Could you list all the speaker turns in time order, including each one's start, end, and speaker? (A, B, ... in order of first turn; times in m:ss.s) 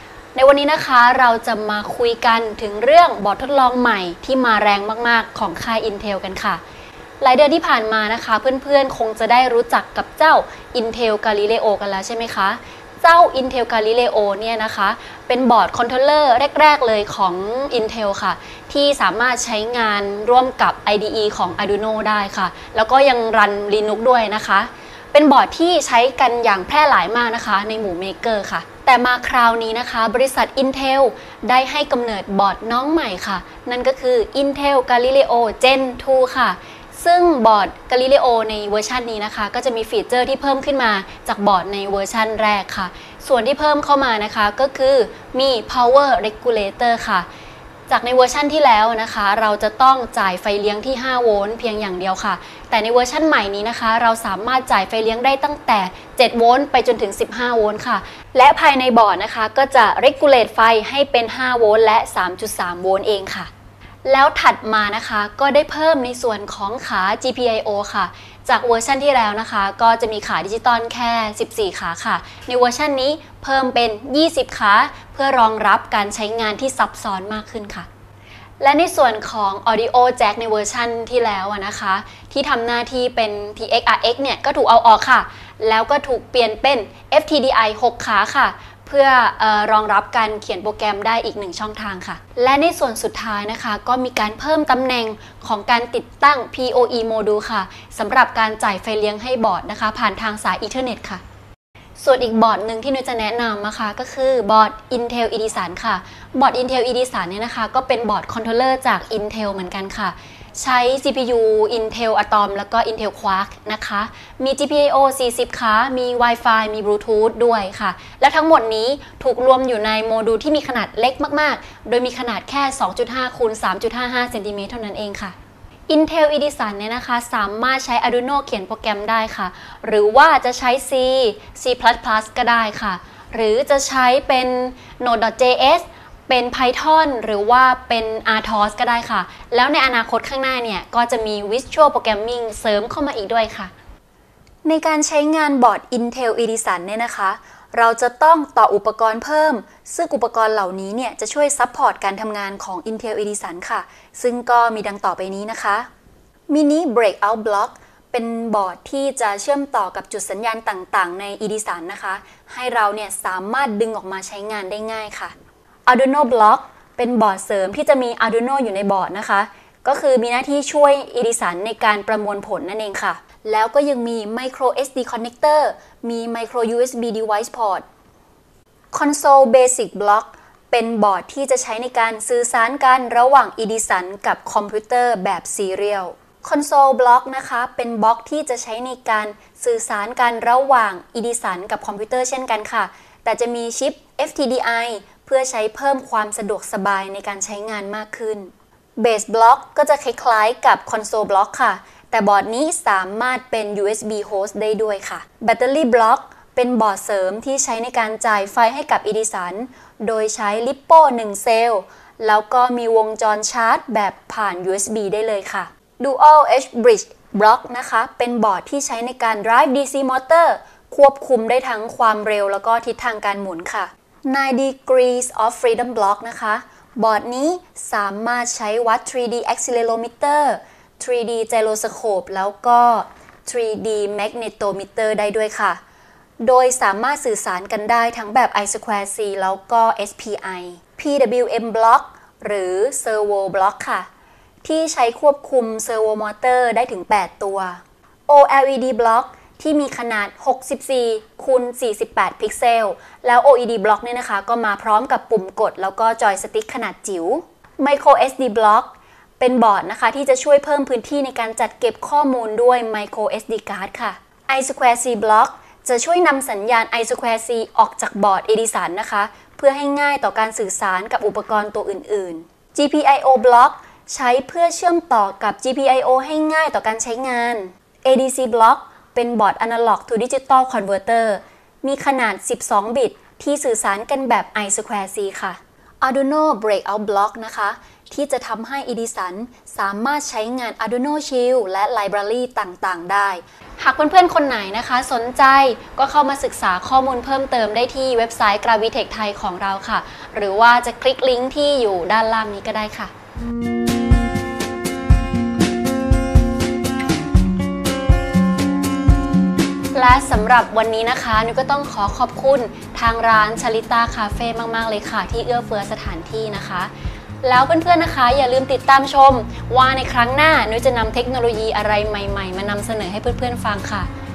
0:00.3-0:06.6 A
0:07.2-0:47.3 A
0:47.9-1:03.5 A
1:04.0-1:17.9 A
1:18.6-1:41.2 A
1:42.0-2:05.3 A
2:05.9-2:23.7 A
2:24.6-2:35.9 A
2:36.5-2:45.3 A
2:45.8-2:57.8 A
2:58.9-3:55.8 A
3:56.4-4:04.1 A
4:04.6-5:03.1 A
5:09.9-5:16.9 A
5:17.4-5:24.1 A